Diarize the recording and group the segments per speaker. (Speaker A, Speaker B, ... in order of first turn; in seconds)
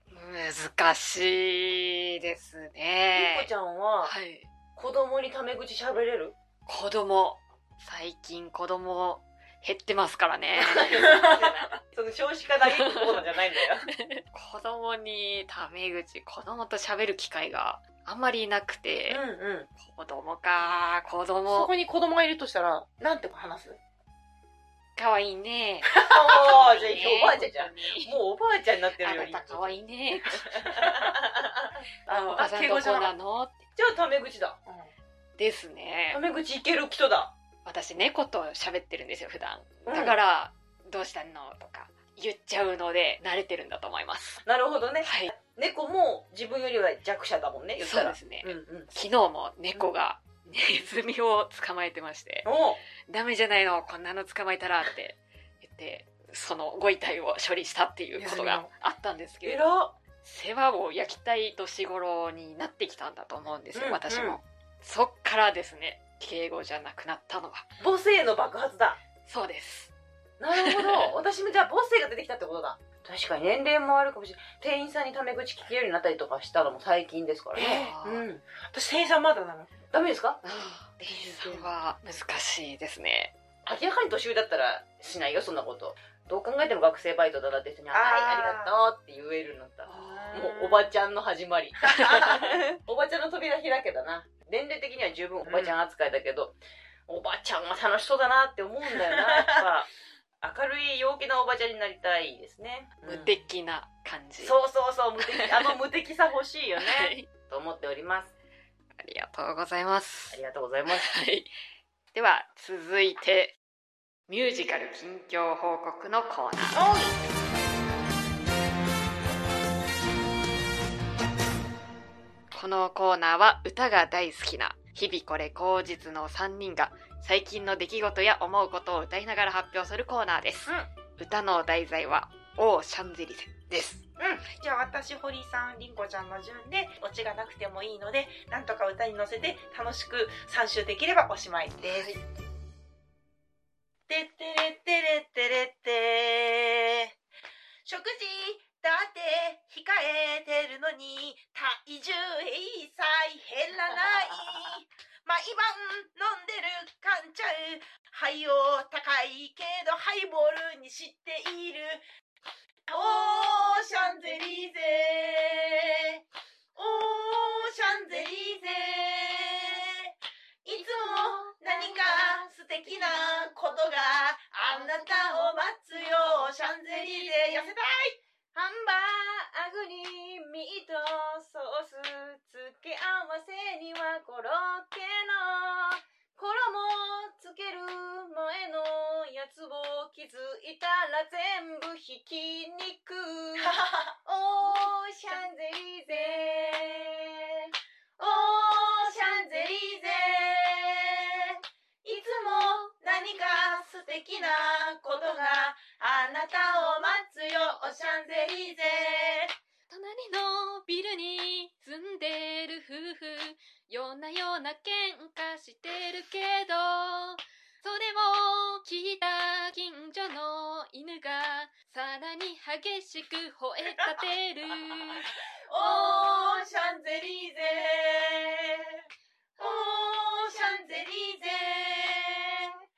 Speaker A: 0.1-3.5, 4.0-4.5, 6.7-10.9, 12.8-13.2, 13.9-19.2, 19.8-21.7, 24.9-28.1, 29.0-30.8, 32.1-33.6, 35.4-36.2, 37.6-44.4, 45.0-45.3, 47.8-52.5, 53.0-59.6, 60.2-67.7, 69.2-69.9, 70.5-71.1, 77.6-78.3, 80.4-83.3, 103.0-104.6, 105.2-105.7, 106.8-107.3, 109.0-111.5, 112.1-113.5, 114.3-116.8, 122.5-133.7, 141.8-142.2, 209.9-225.3
Speaker B: 3.1-4.1, 4.8-6.3, 10.6-13.9, 19.2-19.7, 26.0-29.8, 30.5-32.2, 33.8-34.6, 36.1-37.3, 39.9-40.2, 44.4-48.9, 52.4-52.8, 59.5-59.9, 63.7-64.4, 67.8-69.0, 70.4-78.4, 79.9-80.4, 81.0-81.7, 83.7-96.5, 97.1-99.9, 100.4-103.3, 104.4-108.3, 110.3-111.1, 133.7-134.4, 170.7-172.5, 176.7-177.7, 178.5-200.4
Speaker C: 10.9-11.7, 19.1-19.4, 21.5-23.8, 25.9-26.4, 30.8-31.1, 32.1-33.1, 58.2-58.7, 77.5-77.9, 78.6-79.7, 87.9-88.7, 89.9-90.9, 91.9-92.6, 95.4-95.8, 98.9-99.6, 116.7-117.1, 134.6-142.2, 144.1-147.1, 147.8-162.0, 162.9-166.2, 166.7-170.1, 170.6-178.2, 193.6-194.1, 198.3-199.2, 199.8-201.5, 202.0-209.5, 225.7-229.0, 229.6-232.7